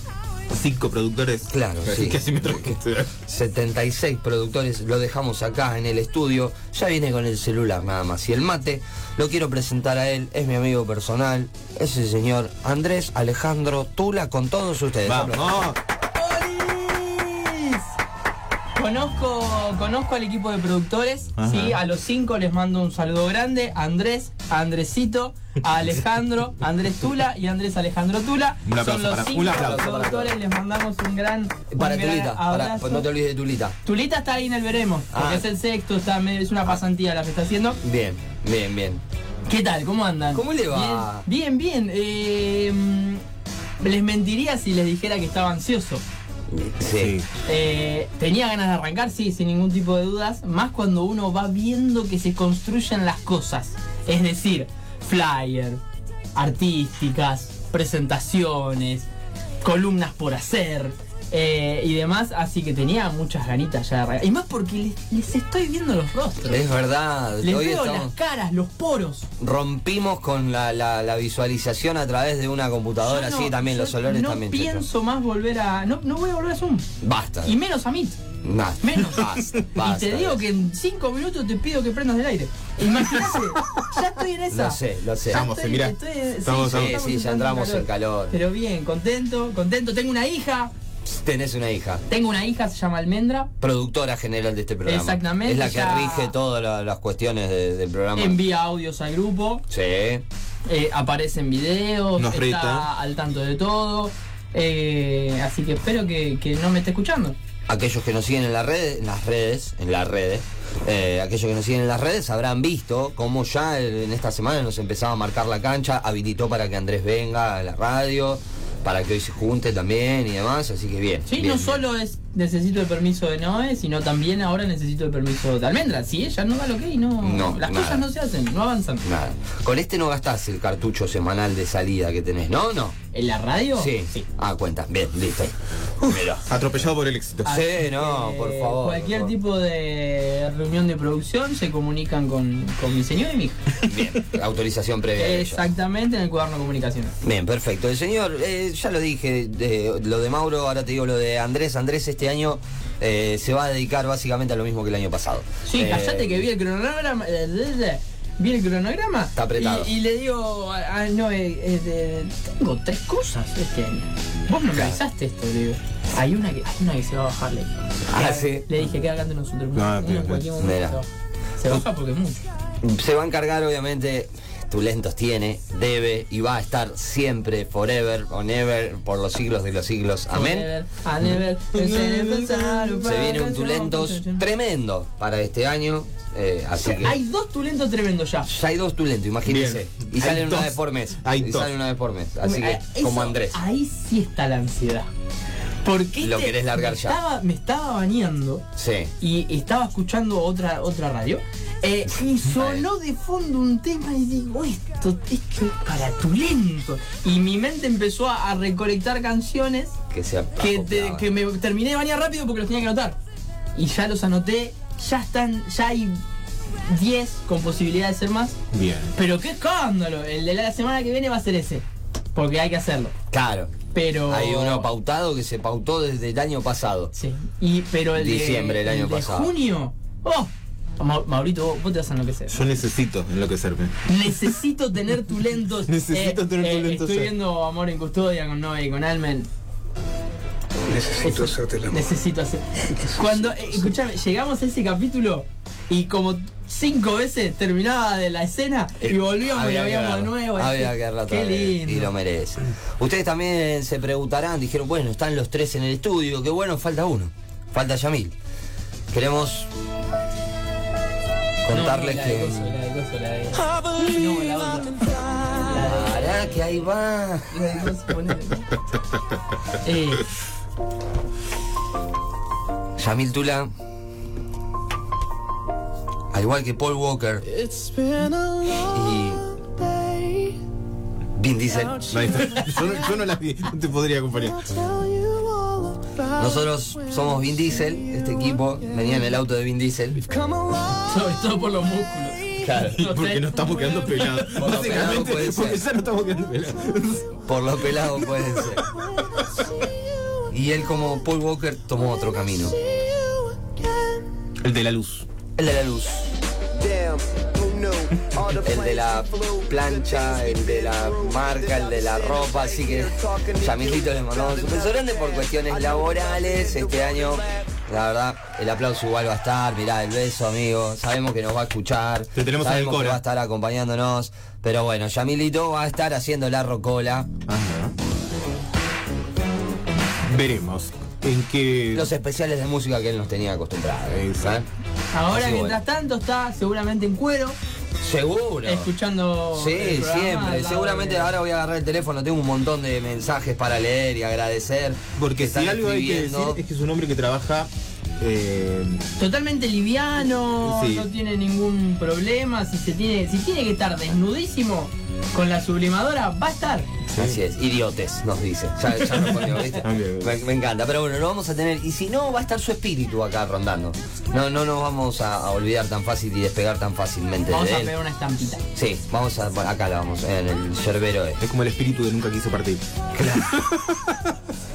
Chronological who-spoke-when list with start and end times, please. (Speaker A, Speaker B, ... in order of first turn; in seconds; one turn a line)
Speaker A: 0.5-3.1
Speaker B: 1.5-15.7
Speaker A: 15.0-15.8
Speaker C: 16.1-17.9
Speaker C: 18.8-33.1
Speaker A: 21.4-21.8
Speaker A: 28.6-29.8
Speaker B: 29.5-30.4
Speaker B: 31.7-33.8
Speaker C: 33.9-37.8
Speaker B: 35.1-35.5
Speaker B: 37.8-39.0
Speaker C: 39.5-43.2
Speaker B: 40.3-41.2
Speaker C: 43.8-46.0
Speaker B: 46.5-47.2
Speaker A: 46.9-47.3
Speaker C: 47.5-55.8
Speaker C: 56.4-59.1
Speaker C: 59.6-66.7
Speaker B: 66.5-68.1
Speaker C: 67.4-69.3
Speaker B: 69.4-74.8
Speaker C: 73.0-76.9
Speaker B: 77.0-77.5
Speaker C: 77.5-78.2
Speaker B: 78.4-80.4
Speaker C: 78.8-90.7
Speaker B: 84.5-85.5
Speaker A: 85.3-87.0
Speaker B: 86.7-88.4
Speaker B: 91.0-92.0
Speaker C: 92.1-93.5
Speaker B: 93.6-98.4
Speaker C: 94.9-96.3
Speaker C: 98.2-99.6
Speaker B: 99.7-100.2
Speaker C: 100.7-107.4
Speaker A: 102.2-102.9
Speaker B: 107.7-121.8
Speaker C: 121.3-129.0
Speaker B: 127.2-128.1
Speaker B: 129.0-133.0
Speaker C: 133.1-134.2
Speaker B: 133.8-136.5
Speaker A: 136.1-137.6
Speaker B: 137.4-139.3
Speaker C: 137.4-143.7
Speaker B: 143.8-145.6
Speaker C: 145.2-147.2
Speaker B: 147.2-156.4
Speaker C: 155.7-171.1
Speaker B: 159.3-159.9
Speaker B: 164.7-165.0
Speaker B: 168.1-168.7
Speaker A: 169.7-170.5
Speaker B: 170.6-171.0
Speaker C: 171.6-172.4
Speaker B: 172.8-180.7
Speaker C: 180.3-184.4
Speaker A: 181.2-183.1
Speaker B: 183.0-187.2
Speaker C: 186.8-188.5
Speaker B: 188.5-193.6
Speaker A: 189.5-191.7
Speaker C: 192.4-195.1
Speaker C: 195.8-198.6
Speaker B: 196.2-197.2
Speaker B: 198.8-199.1
Speaker C: 199.2-210.0
Speaker B: 202.1-202.8
Speaker B: 210.1-211.2
Speaker C: 210.6-213.2
Speaker C: 213.8-216.2
Speaker C: 216.9-218.6
Speaker A: 218.7-219.1
Speaker C: 219.2-223.1
Speaker B: 223.3-223.8
Speaker C: 223.9-224.9
Speaker B: 224.3-227.1
Speaker C: 227.1-232.6
Speaker B: 228.1-229.5
Speaker A: 232.5-234.5
Speaker C: 234.1-239.5
Speaker A: 235.9-237.3
Speaker A: 241.0-241.8
Speaker C: 241.2-252.1
Speaker B: 249.0-258.3
Speaker B: 259.1-259.7
Speaker B: 261.6-262.7
Speaker C: 261.7-266.5
Speaker B: 265.7-267.5
Speaker C: 267.5-268.7
Speaker C: 269.8-270.3
Speaker B: 273.0-273.7
Speaker B: 276.3-277.5
Speaker B: 278.8-279.5
Speaker B: 281.4-282.1
Speaker A: 282.1-284.9
Speaker B: 286.3-290.2
Speaker C: 291.0-294.4
Speaker B: 292.6-293.0
Speaker A: 292.9-297.4
Speaker B: 294.5-295.8
Speaker B: 297.5-298.9
Speaker B: 300.5-302.8
Speaker A: 304.6-305.2
Speaker B: 305.6-306.3
Speaker B: 308.4-327.3
Speaker A: 322.3-323.2
Speaker A: 327.5-327.9
Speaker A: 330.2-332.1
Speaker B: 331.9-334.7
Speaker A: 334.1-334.6
Speaker C: 335.1-337.6
Speaker B: 335.3-335.8
Speaker B: 338.0-338.9
Speaker C: 338.6-341.3
Speaker B: 339.5-346.6
Speaker A: 345.1-349.0
Speaker C: 349.2-356.9
Speaker A: 350.6-351.1
Speaker A: 357.1-357.4
Speaker B: 357.1-367.9
Speaker A: 359.6-360.4
Speaker C: 367.5-368.6
Speaker B: 368.7-371.4
Speaker A: 371.4-374.3
Speaker B: 373.1-373.6